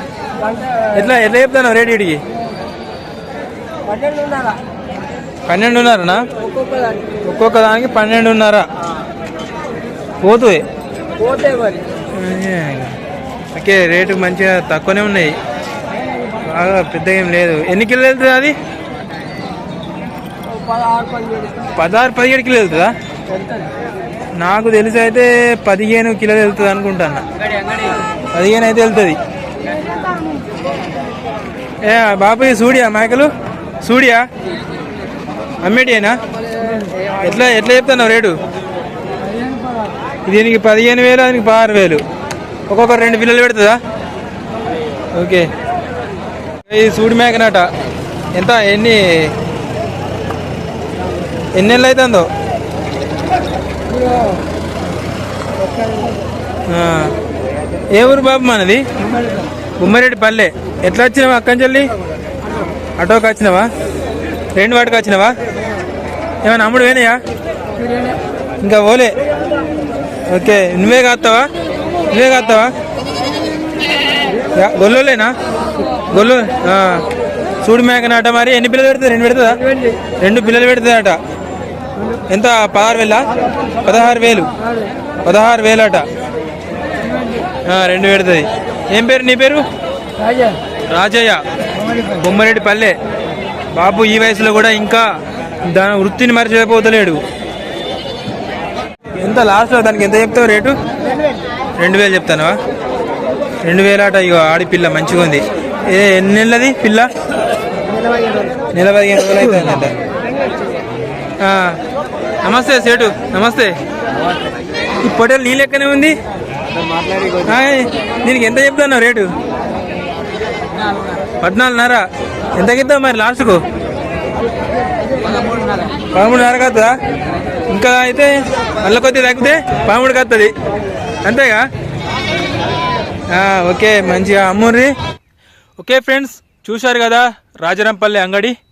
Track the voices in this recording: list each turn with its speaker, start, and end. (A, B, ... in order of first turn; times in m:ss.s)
0:00.4-0:00.9 A
0:00.9-0:02.2 B
0:03.9-0:04.6 A
0:05.5-0:06.3 B
0:06.4-0:07.2 A
0:07.2-0:08.7 B
0:10.2-0:10.6 B
0:11.2-0:11.9 A
0:12.1-0:13.0 B
0:13.5-0:15.4 B
0:16.4-0:18.6 B
0:20.7-0:21.6 A
0:21.8-0:22.9 B
0:23.3-0:23.7 A
0:24.4-0:27.3 B
0:28.3-0:29.2 B
0:29.7-0:30.4 A
0:31.8-0:33.3 B
0:33.8-0:34.3 B
0:35.6-0:36.2 B
0:36.6-0:36.9 A
0:37.2-0:38.4 B
0:39.2-0:40.0 A
0:40.3-0:42.0 B
0:42.7-0:43.8 B
0:45.2-0:45.5 B
0:46.7-0:47.7 B
0:48.4-0:49.3 B
0:51.5-0:52.3 B
0:54.0-0:54.4 A
0:55.8-0:56.0 A
0:56.7-0:57.1 B
0:57.9-0:58.9 B
0:59.8-1:01.9 B
1:03.0-1:03.7 B
1:04.6-1:05.4 B
1:06.4-1:07.2 B
1:08.6-1:09.2 B
1:10.3-1:11.5 B
1:12.1-1:12.8 B
1:14.5-1:15.4 B
1:16.1-1:17.0 B
1:17.6-1:19.6 B
1:20.2-1:21.2 B
1:22.3-1:23.3 B
1:23.8-1:24.5 B
1:25.2-1:26.1 B
1:27.7-1:29.7 B
1:30.2-1:30.6 A
1:30.9-1:31.4 B
1:32.2-1:33.0 B
1:33.7-1:35.2 B
1:35.7-1:37.2 B
1:39.2-1:40.8 B
1:41.8-1:42.6 B
1:43.6-1:47.1 B
1:48.7-1:50.0 B
1:51.4-1:51.8 B
1:52.4-1:53.8 B
1:55.0-1:56.2 B
1:57.4-1:59.3 B
2:00.8-2:01.2 A
2:01.4-2:03.6 B
2:05.1-2:05.9 A
2:06.2-2:06.9 B
2:07.7-2:10.5 B
2:11.2-2:11.6 B
2:13.3-2:14.9 B
2:15.8-2:18.6 B